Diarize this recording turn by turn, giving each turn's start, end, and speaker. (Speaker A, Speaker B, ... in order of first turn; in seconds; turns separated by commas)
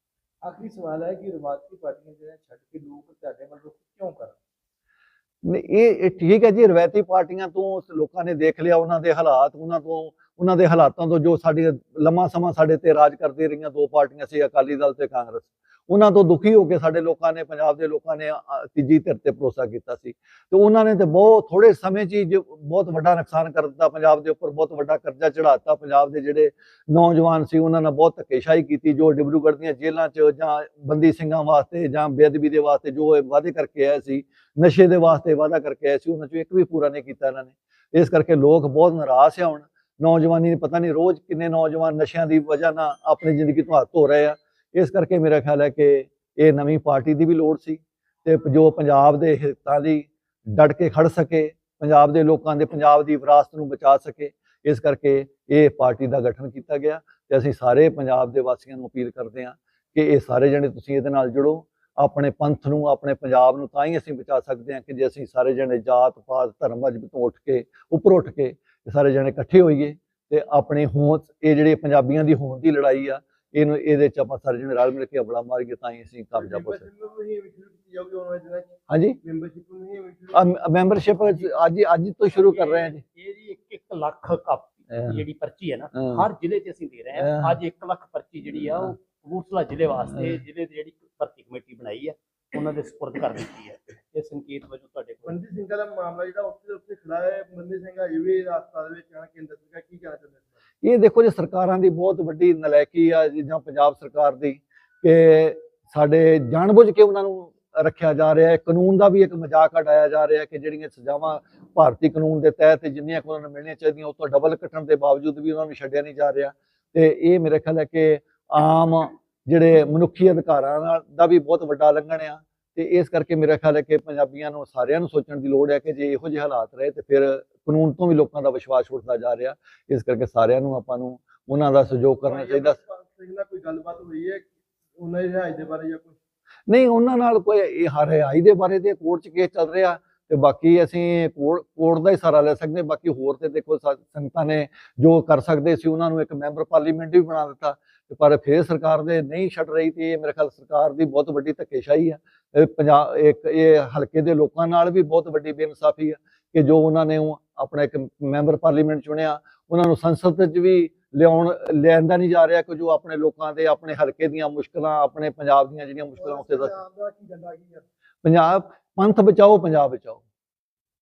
Speaker A: 0.4-4.3, Speaker B: 5.4-76.8, Speaker A: 76.3-80.5, Speaker B: 78.9-79.2, Speaker B: 80.3-83.0, Speaker C: 82.3-95.4, Speaker B: 84.9-85.2, Speaker B: 85.9-86.2, Speaker B: 87.2-87.5, Speaker A: 95.2-100.5, Speaker B: 100.8-132.8, Speaker A: 132.2-136.2, Speaker B: 136.7-166.8, Speaker A: 166.1-167.8, Speaker B: 168.2-170.2